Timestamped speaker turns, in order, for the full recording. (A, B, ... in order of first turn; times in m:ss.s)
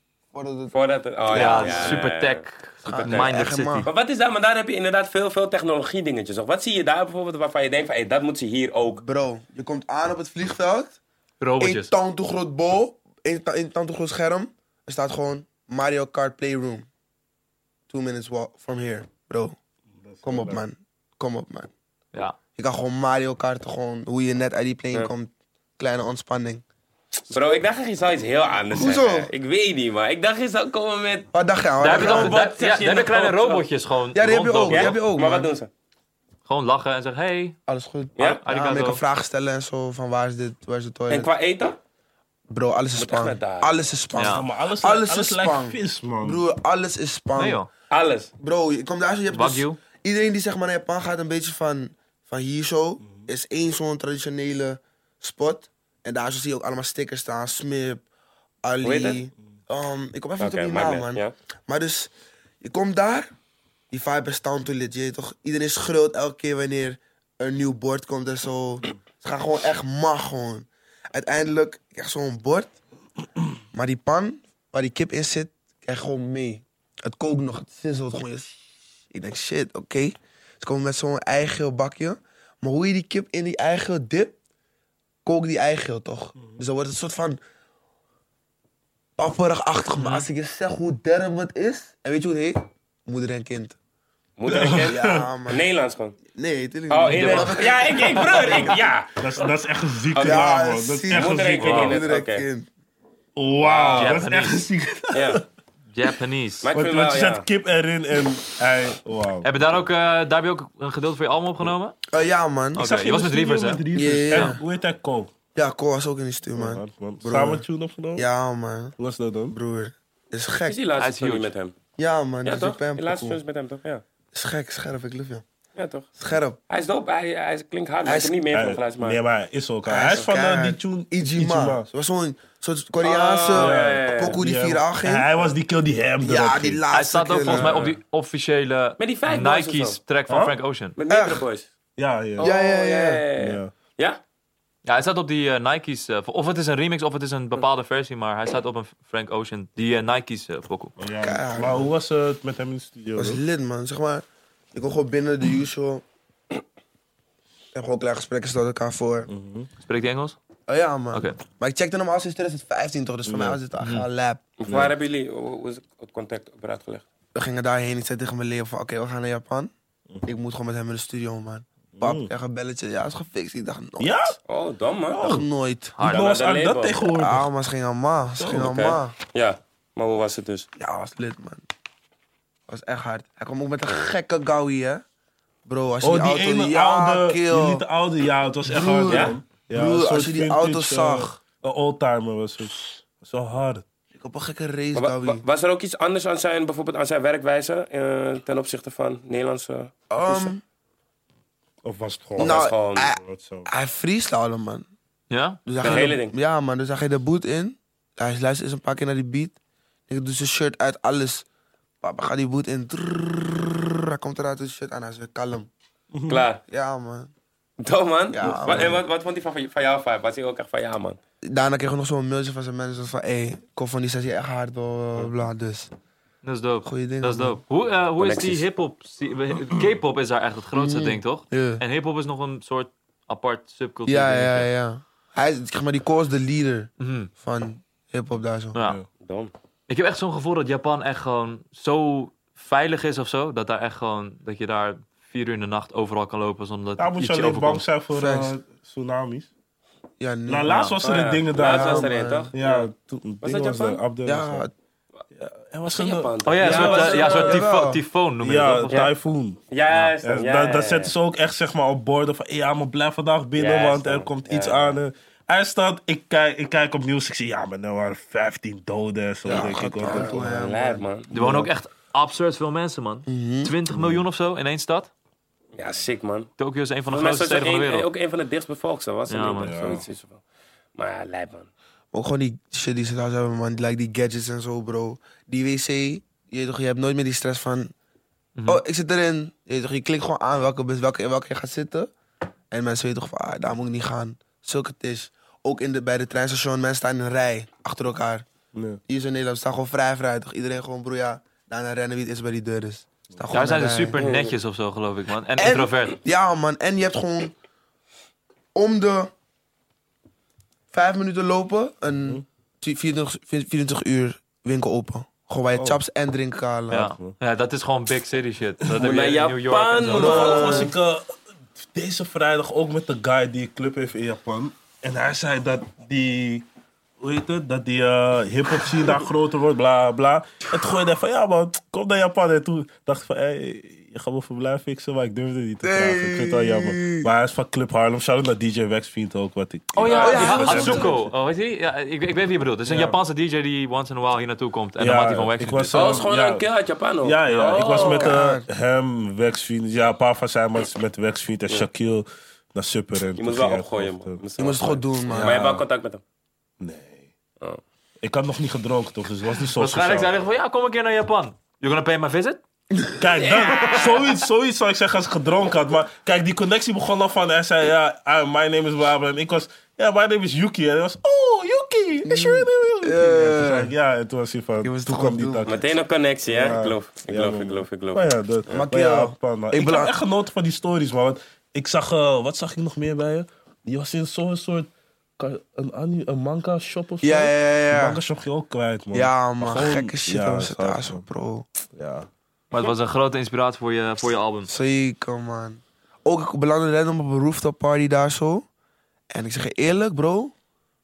0:00.3-0:00.7 A
0:00.7-0:03.3 B
0:01.2-0:02.0 A
0:01.3-0:03.9 C
0:02.8-0:03.9 A
0:03.8-0:09.0 B
0:09.0-0:11.0 A
0:11.4-0:11.9 C
0:11.6-0:16.9 A
0:17.9-0:19.6 A
0:20.0-0:20.6 D
0:20.2-0:21.7 A
0:22.6-0:26.6 A
0:27.3-0:31.3 B
0:28.7-0:29.3 A
0:31.3-0:32.4 A
0:31.8-0:35.0 C
0:31.8-0:33.6 B
0:34.1-0:35.5 A
0:34.7-0:35.7 B
0:36.4-0:37.6 C
0:37.7-0:41.3 A
0:38.2-0:38.4 B
0:38.4-0:39.0 C
0:41.1-0:41.8 B
0:42.5-0:47.6 A
0:43.0-0:43.8 B
0:44.2-0:44.4 C
0:44.2-0:46.4 D
0:47.4-0:47.7 C
0:47.9-0:48.3 B
0:48.4-0:58.0 A
0:49.3-0:49.8 C
0:58.6-1:03.3 A
0:58.8-0:59.2 B
1:00.4-1:01.3 B
1:03.9-1:12.7 A
1:13.7-1:18.6 A
1:19.1-1:24.4 A
1:25.2-1:27.4 A
1:29.2-1:33.8 A
1:30.0-1:30.2 C
1:34.4-1:36.2 B
1:34.5-1:35.3 D
1:34.7-1:35.6 A
1:36.3-1:38.7 A
1:36.9-1:39.5 B
1:37.2-1:37.5 C
1:37.2-1:37.5 D
1:38.1-1:42.0 D
1:40.1-1:40.6 B
1:40.2-1:42.7 A
1:41.1-1:42.4 B
1:41.6-1:42.0 C
1:43.4-1:45.4 D
1:43.6-1:44.2 B
1:43.9-1:44.7 C
1:45.1-1:45.4 B
1:45.9-1:46.7 C
1:46.6-1:47.4 B
1:46.7-1:49.5 D
1:49.4-1:52.0 C
1:52.1-1:52.8 A
1:52.7-1:54.6 C
1:52.8-1:55.3 D
1:53.9-1:54.6 A
1:55.5-1:57.6 A
1:56.6-1:58.2 D
1:58.2-1:58.9 A
1:59.0-1:59.6 D
1:59.5-2:00.8 A
2:00.7-2:01.7 B
2:01.0-2:01.5 C
2:02.0-2:03.4 A
2:02.4-2:04.0 B
2:04.3-2:05.4 A
2:05.8-2:06.1 B
2:06.2-2:06.6 A
2:06.7-2:09.2 B
2:08.0-2:08.4 A
2:08.5-2:11.9 D
2:09.8-2:15.3 A
2:13.0-2:14.4 B
2:13.5-2:16.8 D
2:16.2-2:17.8 A
2:16.9-2:21.0 C
2:17.5-2:18.0 B
2:19.0-2:20.0 B
2:20.3-2:20.5 D
2:21.0-2:21.7 B
2:21.1-2:21.4 A
2:22.0-2:22.5 D
2:22.4-2:24.2 B
2:22.4-2:23.2 A
2:23.4-2:23.7 D
2:24.8-2:30.9 C
2:31.0-2:33.4 D
2:31.2-2:31.9 A
2:33.2-2:36.0 A
2:37.7-2:39.3 A
2:39.3-2:39.7 D
2:39.8-2:40.4 C
2:40.7-2:44.4 A
2:41.1-2:41.4 C
2:43.2-2:43.6 D
2:43.8-2:44.1 C
2:44.6-2:47.0 B
2:44.7-2:44.9 D
2:47.3-2:49.7 A
2:50.2-2:54.4 A
2:52.0-2:52.3 D
2:54.0-2:54.4 D
2:54.5-2:55.3 B
2:55.1-2:55.4 D
2:55.2-2:56.0 A
2:56.0-2:56.4 C
2:56.0-2:57.5 D
2:56.0-2:57.0 B
2:57.1-2:59.1 A
2:58.4-2:58.7 D
2:58.5-3:00.7 B
3:00.8-3:01.6 A
3:02.7-3:05.0 A
3:05.6-3:07.8 A
3:06.0-3:13.8 D
3:08.6-3:11.4 A
3:09.1-3:09.4 B
3:14.1-3:15.4 A
3:14.9-3:20.5 B
3:20.1-3:20.6 A
3:21.8-3:23.7 D
3:22.4-3:23.1 B
3:22.4-3:24.9 A
3:25.3-3:26.1 C
3:25.6-3:29.6 A
3:25.8-3:26.3 B
3:30.1-3:31.4 A
3:32.0-3:35.7 A
3:36.1-3:36.4 D
3:36.3-3:36.6 B
3:36.7-3:37.3 A
3:37.8-3:41.2 B
3:38.3-3:39.0 A
3:41.4-3:45.9 A
3:46.4-3:54.7 C
3:46.8-3:47.6 A
3:48.2-3:48.6 B
3:50.7-3:51.8 A
3:54.0-3:58.8 A
3:57.0-3:57.3 C
3:58.8-3:59.0 D
3:59.2-3:59.5 B
3:59.9-4:07.8 C
4:07.0-4:09.5 D
4:08.1-4:08.5 A
4:10.2-4:10.8 A
4:10.5-4:14.6 D
4:10.7-4:11.0 C
4:11.0-4:12.9 B
4:11.6-4:12.5 A
4:13.4-4:14.0 B
4:14.2-4:14.7 A
4:15.3-4:17.1 D
4:15.9-4:17.6 B
4:16.4-4:19.1 C
4:16.7-4:18.0 A
4:18.4-4:19.6 D
4:19.7-4:21.1 B
4:20.2-4:30.6 D
4:23.6-4:25.0 B
4:29.4-4:31.7 A
4:30.0-4:31.3 B
4:31.3-4:35.1 C
4:33.3-4:33.7 A
4:33.9-4:34.2 D
4:35.8-4:36.5 B
4:36.6-4:38.1 C
4:37.1-4:40.4 B
4:39.3-4:39.7 C
4:39.6-4:40.0 D
4:41.0-4:41.7 B
4:42.1-4:47.9 A
4:48.6-4:48.8 C
4:48.6-4:52.1 A
4:52.7-4:58.4 A
4:58.7-4:59.0 D
4:59.1-5:04.2 A
5:03.5-5:06.2 C
5:04.2-5:04.5 B
5:05.6-5:07.5 A
5:08.7-5:09.3 A
5:10.9-5:17.1 A
5:15.7-5:16.0 D
5:16.9-5:20.8 C
5:19.0-5:20.9 B
5:20.1-5:26.6 D
5:20.1-5:20.9 A
5:27.2-5:41.2 D
5:35.8-5:37.3 A
5:40.0-5:46.2 C
5:40.0-5:41.0 B
5:40.1-5:41.2 A
5:42.9-5:43.2 D
5:45.0-5:46.6 D
5:45.9-5:48.3 B
5:47.2-5:54.4 D
5:47.5-5:48.0 C
5:47.9-5:48.7 A
5:53.4-5:56.2 B
5:54.6-5:55.7 A
5:55.3-5:55.8 D
5:56.8-5:57.3 D
5:58.2-6:00.4 D
5:59.8-6:02.6 C
6:03.2-6:15.8 D
6:03.4-6:04.2 B
6:12.2-6:13.9 A
6:14.8-6:15.7 A
6:15.6-6:18.8 B
6:16.4-6:31.2 D
6:18.7-6:20.1 A
6:27.2-6:28.2 A
6:29.1-6:31.7 A
6:32.0-6:32.3 D
6:32.7-6:34.7 C
6:34.7-6:38.6 A
6:39.3-6:40.5 A